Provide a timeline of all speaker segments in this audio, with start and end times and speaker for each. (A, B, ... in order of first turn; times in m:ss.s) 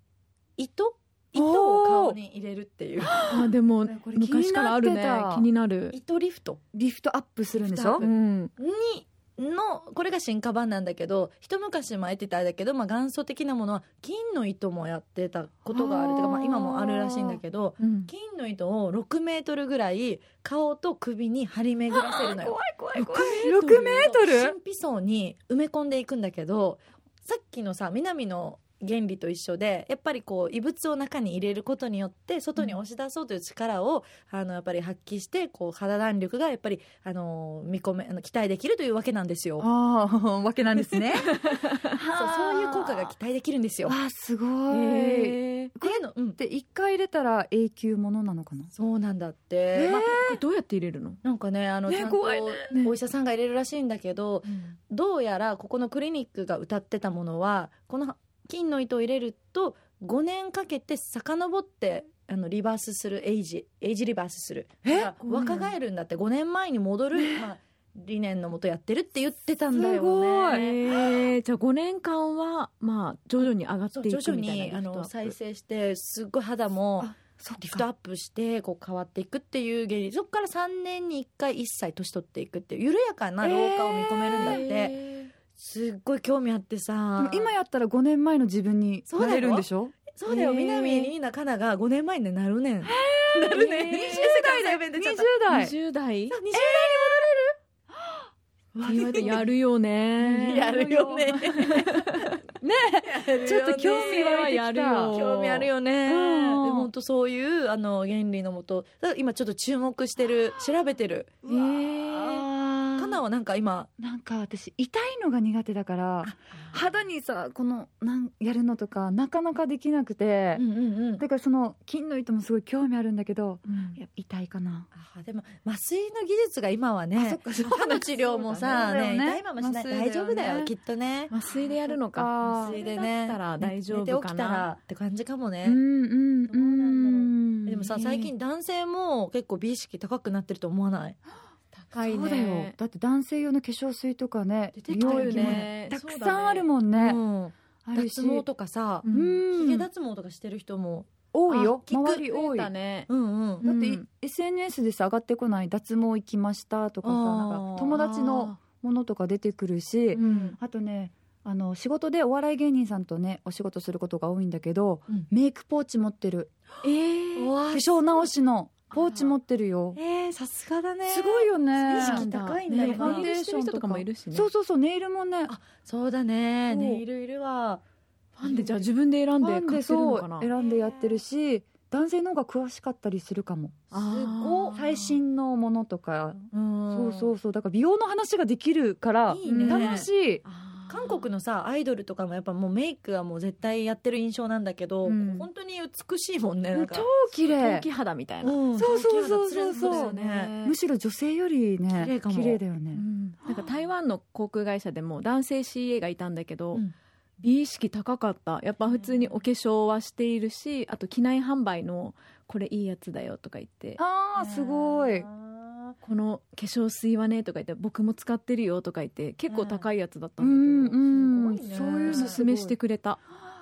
0:00.6-0:03.2 A
0:01.4-0:02.2 B
0:03.0-0:05.5 B
0:03.3-0:06.0 C
0:05.9-0:06.6 A
0:06.7-0:08.0 B
0:07.5-0:39.7 A
0:08.0-0:08.5 C
0:15.7-0:17.4 B
0:17.8-0:18.1 C
0:21.9-0:24.6 B
0:23.1-0:24.0 C
0:39.6-0:43.1 B
0:41.1-0:41.9 C
0:42.1-0:44.0 A
0:43.9-0:48.7 B
0:44.7-0:45.7 C
0:45.8-0:46.4 A
0:48.7-0:50.0 A
0:49.7-0:50.4 B
0:49.9-0:51.2 C
0:51.2-1:10.9 A
0:51.9-0:52.7 B
1:04.8-1:05.4 B
1:05.2-1:05.7 C
1:07.1-1:07.5 B
1:09.7-1:10.6 B
1:10.5-1:15.3 C
1:13.9-1:25.0 A
1:17.0-1:17.9 B
1:23.4-1:24.7 B
1:24.4-1:25.3 C
1:25.6-1:27.5 A
1:27.2-1:31.1 B
1:29.1-1:35.3 A
1:32.8-1:35.8 B
1:33.5-1:34.3 C
1:35.5-1:36.4 C
1:36.3-1:37.3 A
1:36.5-1:39.5 B
1:38.8-1:40.8 C
1:38.9-1:39.5 A
1:40.3-1:41.9 A
1:40.5-1:41.9 B
1:41.5-1:42.3 C
1:42.6-1:45.2 B
1:43.0-1:44.3 A
1:43.8-1:45.7 C
1:45.1-1:51.5 A
1:46.1-1:46.9 B
1:51.4-1:53.2 B
1:51.7-1:52.4 C
1:52.0-1:52.4 A
1:53.0-1:53.9 A
1:54.0-2:00.6 B
1:56.2-1:56.9 A
2:00.6-2:01.2 A
2:01.2-2:04.9 B
2:03.7-2:04.0 C
2:04.9-2:11.4 A
2:07.2-2:10.7 B
2:11.3-2:14.7 C
2:11.5-2:12.8 B
2:12.4-2:15.8 A
2:15.6-2:17.9 B
2:16.5-2:21.2 A
2:17.9-2:18.3 C
2:21.8-2:22.8 C
2:21.9-2:27.2 B
2:24.8-2:25.7 A
2:24.9-2:26.7 C
2:26.9-2:32.3 A
2:27.8-2:28.5 B
2:29.0-2:29.4 C
2:29.1-2:29.9 B
2:31.3-2:32.7 B
2:32.2-2:33.1 C
2:33.1-2:33.6 A
2:33.6-2:34.0 C
2:33.6-2:46.5 B
2:37.0-2:38.0 A
2:37.9-2:38.6 C
2:40.1-2:40.6 A
2:40.2-2:40.5 C
2:46.8-2:47.5 C
2:47.4-2:48.3 A
2:47.7-2:50.0 B
2:48.9-2:49.2 A
2:50.0-2:53.3 A
2:51.0-2:55.5 B
2:51.9-2:54.5 C
2:55.5-2:57.8 A
2:56.7-2:57.0 B
2:58.4-3:00.5 C
2:58.4-2:58.9 A
2:59.4-3:10.4 B
3:00.6-3:01.2 A
3:03.9-3:05.0 C
3:04.1-3:04.7 A
3:06.5-3:07.3 A
3:09.3-3:10.1 A
3:09.4-3:11.3 C
3:10.9-3:17.1 A
3:15.0-3:15.5 C
3:16.7-3:17.9 B
3:17.0-3:18.6 C
3:18.4-3:20.5 A
3:18.8-3:23.0 B
3:19.8-3:20.8 C
3:21.9-3:22.6 A
3:22.9-3:26.8 C
3:27.4-3:34.0 C
3:28.8-3:29.4 A
3:34.0-3:35.3 B
3:34.3-3:36.0 A
3:36.0-3:41.0 C
3:39.5-3:39.9 A
3:40.4-3:42.8 B
3:41.1-3:42.4 A
3:42.0-3:43.2 C